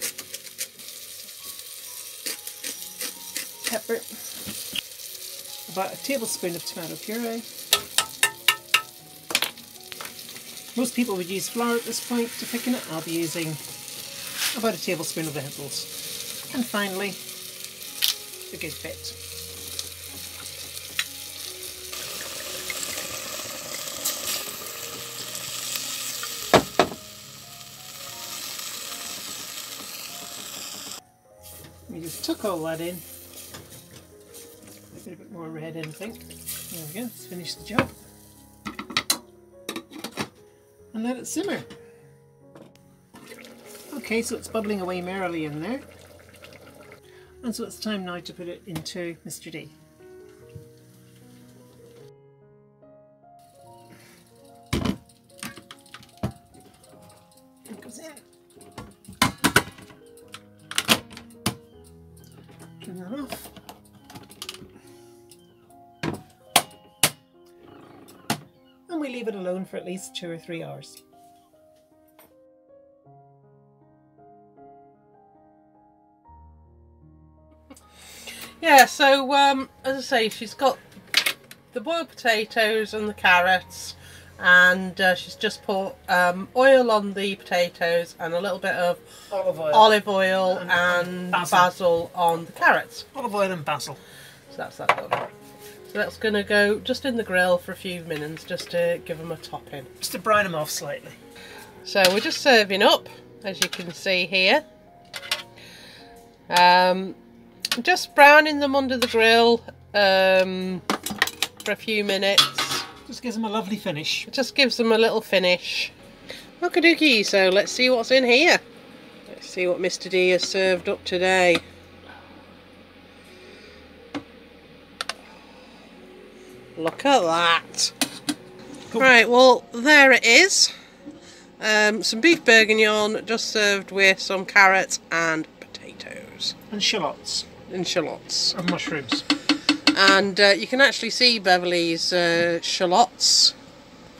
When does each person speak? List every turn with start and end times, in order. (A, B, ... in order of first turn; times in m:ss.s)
0:03.6-0:04.2 A
0:05.7-0:07.5 A
0:10.7-0:13.6 A
0:14.5-0:15.9 A
0:16.5-0:17.2 A
0:18.5-0:19.2 A
0:31.9-0:33.0 A
0:34.9-0:38.0 A
0:40.9-0:41.7 A
0:43.9-0:45.8 A
0:47.4-0:49.7 A
0:57.7-0:58.2 A
1:02.8-1:03.5 A
1:08.9-1:11.0 A
1:18.6-1:29.0 B
1:29.3-1:31.7 A
1:29.7-1:33.0 B
1:33.1-1:34.0 A
1:34.5-1:35.3 B
1:35.9-1:39.9 B
1:40.0-1:41.2 A
1:41.8-1:44.6 B
1:46.5-1:47.2 B
1:47.7-1:50.8 B
1:51.6-1:52.8 B
1:53.0-1:54.3 A
1:54.3-1:55.9 B
1:56.6-1:58.6 B
1:59.2-2:01.6 B
2:06.8-2:07.9 B
2:08.9-2:10.7 B
2:11.6-2:16.6 B
2:16.7-2:17.5 A
2:17.7-2:18.6 B
2:18.5-2:19.2 A
2:19.7-2:23.5 B